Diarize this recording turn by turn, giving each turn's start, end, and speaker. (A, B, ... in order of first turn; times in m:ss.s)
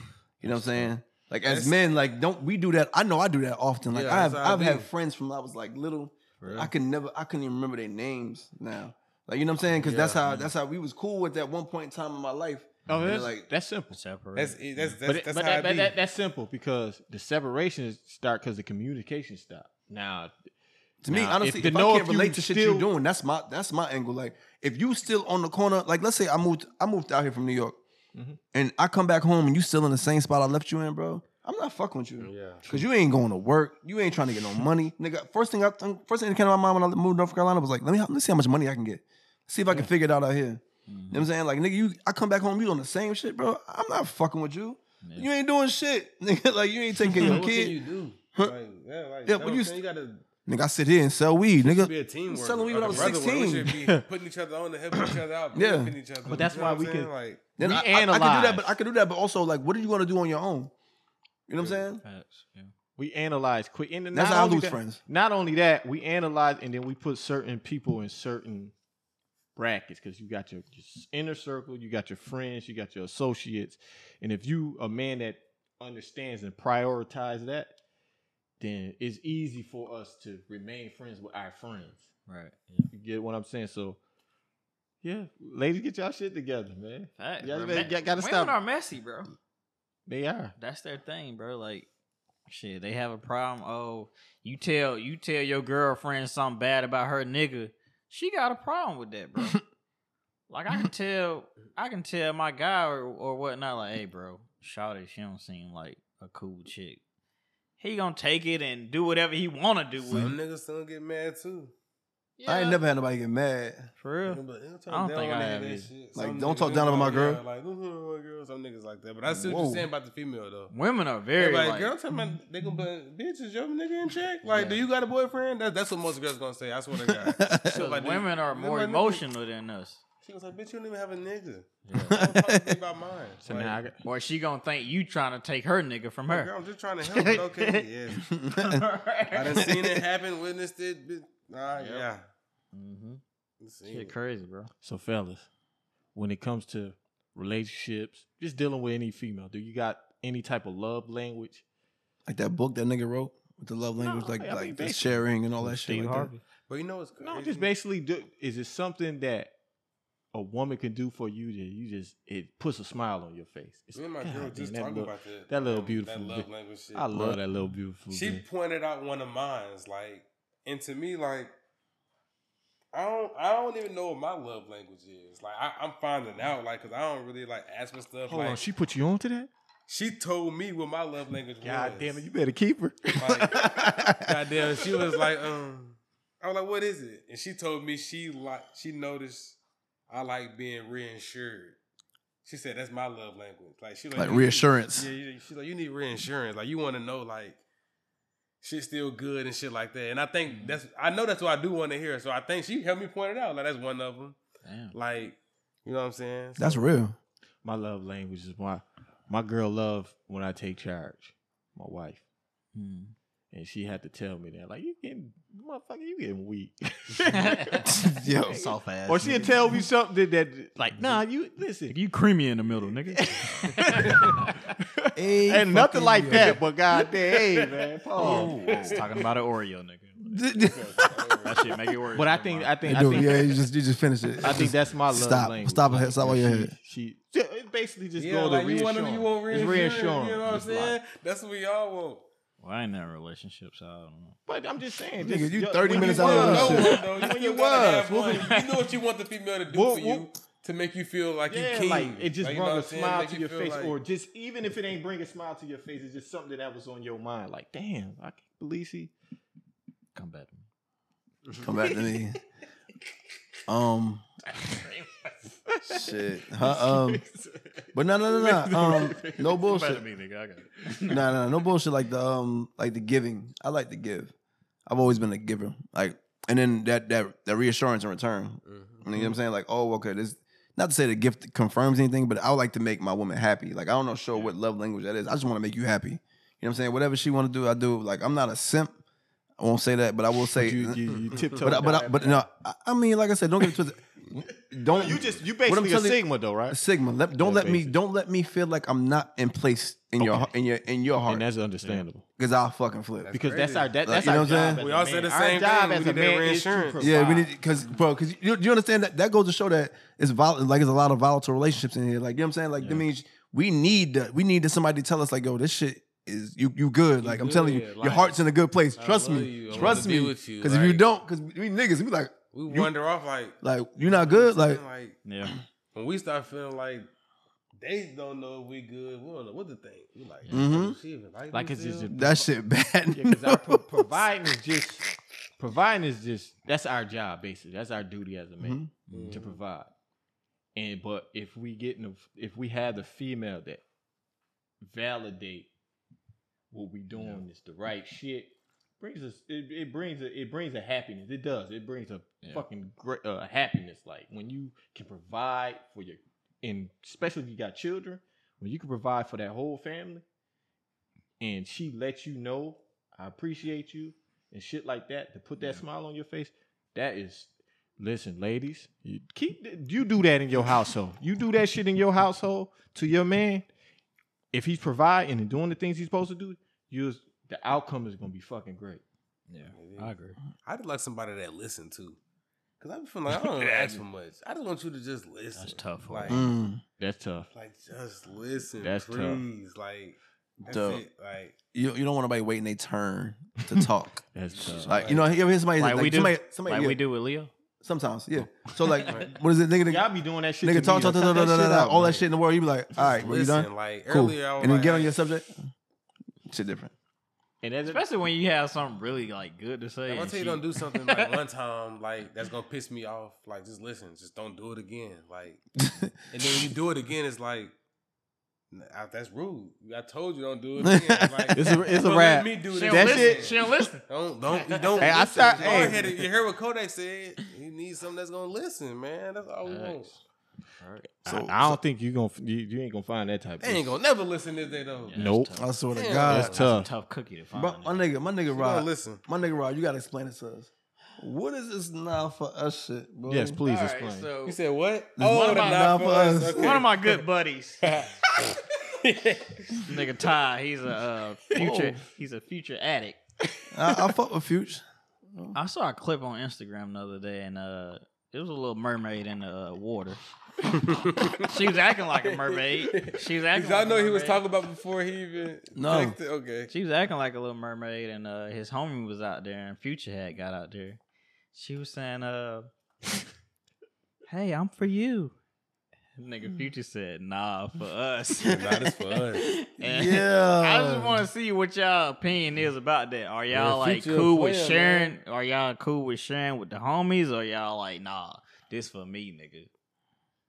0:00.4-0:13.5 A
0:00.4-0:00.9 B
0:01.4-0:01.8 C
0:03.9-0:04.9 C
0:06.4-0:06.7 B
0:09.8-0:10.2 C
0:10.2-0:10.5 B
0:12.9-0:14.0 D
0:13.9-0:15.0 B
0:14.3-0:15.9 C
0:15.0-0:20.4 D
0:21.0-0:27.8 A
0:21.1-0:21.3 B
0:21.1-0:22.9 D
0:28.5-0:47.8 A
0:32.2-0:32.6 C
0:40.9-0:41.3 B
0:45.0-0:45.3 B
0:47.1-0:50.2 C
0:49.2-0:49.8 A
0:50.4-0:53.7 A
0:51.6-0:57.4 C
0:52.9-0:53.1 D
0:55.5-0:55.9 A
0:56.2-0:58.7 D
0:57.6-1:00.7 A
1:01.5-1:02.0 A
1:02.0-1:02.7 B
1:03.0-1:08.7 D
1:04.1-1:05.0 A
1:09.6-1:17.7 D
1:18.6-1:22.1 D
1:22.3-1:22.9 B
1:22.9-1:24.0 D
1:25.0-1:28.6 D
1:27.2-1:29.3 B
1:30.0-1:30.5 D
1:30.6-1:31.9 B
1:32.5-1:39.6 B
1:40.5-1:47.0 B
1:47.8-1:50.3 B
1:50.1-1:51.7 C
1:52.4-1:52.8 B
1:52.4-1:53.9 A
1:54.0-1:55.9 B
1:54.2-2:00.7 C
1:56.1-1:57.4 A
1:59.3-1:59.9 A
2:00.7-2:01.9 B
2:01.4-2:09.2 C
2:04.4-2:04.8 B
2:07.1-2:07.8 A
2:07.7-2:10.0 B
2:10.2-2:13.8 C
2:11.9-2:12.2 B
2:12.0-2:12.7 A
2:13.4-2:14.0 D
2:14.0-2:17.8 B
2:16.3-2:18.3 C
2:18.2-2:18.8 A
2:18.5-2:19.6 B
2:19.3-2:22.2 C
2:19.6-2:20.0 A
2:21.7-2:22.1 B
2:22.7-2:23.2 B
2:23.6-2:24.1 C
2:23.8-2:24.7 B
2:24.8-2:25.5 D
2:26.1-2:31.6 D
2:32.3-2:36.3 A
2:34.0-2:35.2 D
2:35.6-2:36.4 B
2:36.7-2:37.7 C
2:37.2-2:39.5 D
2:40.3-2:48.4 D
2:43.9-2:47.1 C
2:47.1-2:47.4 A
2:48.1-2:51.5 C
2:52.9-2:58.7 C
2:58.3-2:59.5 D
2:59.9-3:02.2 C
3:01.6-3:03.6 D
3:03.1-3:09.6 C
3:03.5-3:04.3 A
3:10.1-3:11.8 C
3:12.4-3:17.6 C
3:14.1-3:15.1 A
3:18.6-3:24.4 C
3:20.5-3:20.8 B
3:24.6-3:25.0 B
3:24.9-3:26.9 C
3:26.6-3:27.2 A
3:27.6-3:32.2 D
3:32.7-3:33.1 B
3:33.5-3:37.8 D
3:37.2-3:39.8 B
3:37.8-3:38.7 A
3:39.0-3:42.0 D
3:41.9-3:44.7 B
3:43.1-3:48.5 D
3:45.1-3:46.6 A
3:47.4-3:49.3 C
3:48.2-3:50.4 B
3:50.3-3:51.0 A
3:50.6-3:51.8 C
3:51.4-3:53.4 B
3:52.1-3:53.6 D
3:52.8-3:56.7 A
3:54.4-4:01.0 D
3:58.2-4:02.3 C
4:02.6-4:04.4 B
4:04.4-4:08.5 D
4:05.2-4:07.0 A
4:05.9-4:14.0 C
4:06.5-4:07.3 B
4:08.3-4:08.7 B
4:09.7-4:10.3 D
4:11.5-4:19.1 D
4:20.1-4:20.6 B
4:21.6-4:22.4 A
4:23.7-4:24.2 A
4:24.6-4:25.3 B
4:25.7-4:29.6 D
4:25.8-4:27.2 A
4:27.9-4:30.0 A
4:29.6-4:31.2 B
4:31.1-4:34.3 A
4:34.9-4:49.0 A
4:38.6-4:39.0 C
4:39.1-4:39.4 D
4:49.6-5:01.5 A
4:50.5-4:52.4 D
4:51.1-4:51.7 C
4:54.8-4:56.8 D
4:57.4-4:58.0 D
5:00.2-5:00.5 D
5:01.3-5:02.2 D
5:02.4-5:03.3 A
5:03.2-5:07.1 C
5:03.3-5:07.5 D
5:04.0-5:04.8 A
5:07.0-5:22.9 A
5:12.8-5:13.1 D
5:17.2-5:18.4 C
5:19.0-5:21.0 C
5:22.5-5:25.2 C
5:23.6-5:24.8 A
5:25.2-5:25.5 B
5:25.9-5:27.1 C
5:27.8-5:32.1 C
5:30.5-5:31.0 A
5:31.5-5:32.5 D
5:32.1-5:34.3 A
5:33.1-5:39.9 D
5:38.6-5:38.9 A
5:39.1-5:39.4 B
5:39.1-5:39.6 C
5:40.7-5:43.8 D
5:44.8-5:45.7 D
5:46.7-6:00.2 D
5:47.1-5:47.4 B
6:01.4-6:13.6 D
6:14.5-6:19.0 D
6:19.5-6:20.4 B
6:19.7-6:22.2 C
6:22.8-6:26.4 C
6:25.6-6:26.5 B
6:26.3-6:26.8 A
6:27.0-6:27.5 D
6:27.5-6:31.6 C
6:28.8-6:29.4 D
6:30.6-6:31.0 A
6:31.7-6:34.2 A
6:33.7-6:35.3 D
6:34.6-6:35.2 B
6:34.8-6:37.0 A
6:35.8-6:37.5 B
6:37.8-6:40.1 A
6:38.8-6:39.2 B
6:39.9-6:42.3 D
6:40.6-6:45.5 A
6:43.1-6:45.1 C
6:46.5-6:46.9 A
6:47.6-6:48.0 D
6:47.8-6:51.3 B
6:50.1-6:55.6 C
6:55.8-6:56.6 A
6:56.3-6:57.7 C
6:58.7-7:10.1 C
7:00.8-7:01.6 A
7:01.5-7:03.6 D
7:02.7-7:06.0 B
7:05.0-7:06.1 D
7:09.6-7:10.2 B
7:10.8-7:11.1 B
7:11.2-7:14.0 D
7:11.2-7:11.8 A
7:13.6-7:15.3 C
7:15.0-7:18.1 B
7:15.1-7:15.6 D
7:15.6-7:16.5 A
7:15.9-7:16.6 C
7:16.2-7:16.9 D
7:17.5-7:23.6 A
7:18.5-7:19.2 C
7:23.3-7:24.3 D
7:23.6-7:24.6 B
7:24.4-7:27.2 C
7:25.2-7:26.8 A
7:25.2-7:26.0 B
7:26.5-7:27.8 B
7:27.8-7:29.9 C
7:29.8-7:33.2 B
7:31.6-7:32.0 A
7:33.7-7:35.6 A
7:35.5-7:40.2 B
7:40.7-7:41.6 C
7:41.4-7:44.4 B
7:42.1-7:46.7 C
7:45.7-7:46.2 A
7:46.7-7:51.0 B
7:51.5-7:52.7 B
7:54.3-7:55.3 B
7:56.2-8:09.7 B
7:58.4-7:59.5 C
7:59.8-8:01.3 A
8:03.5-8:05.2 C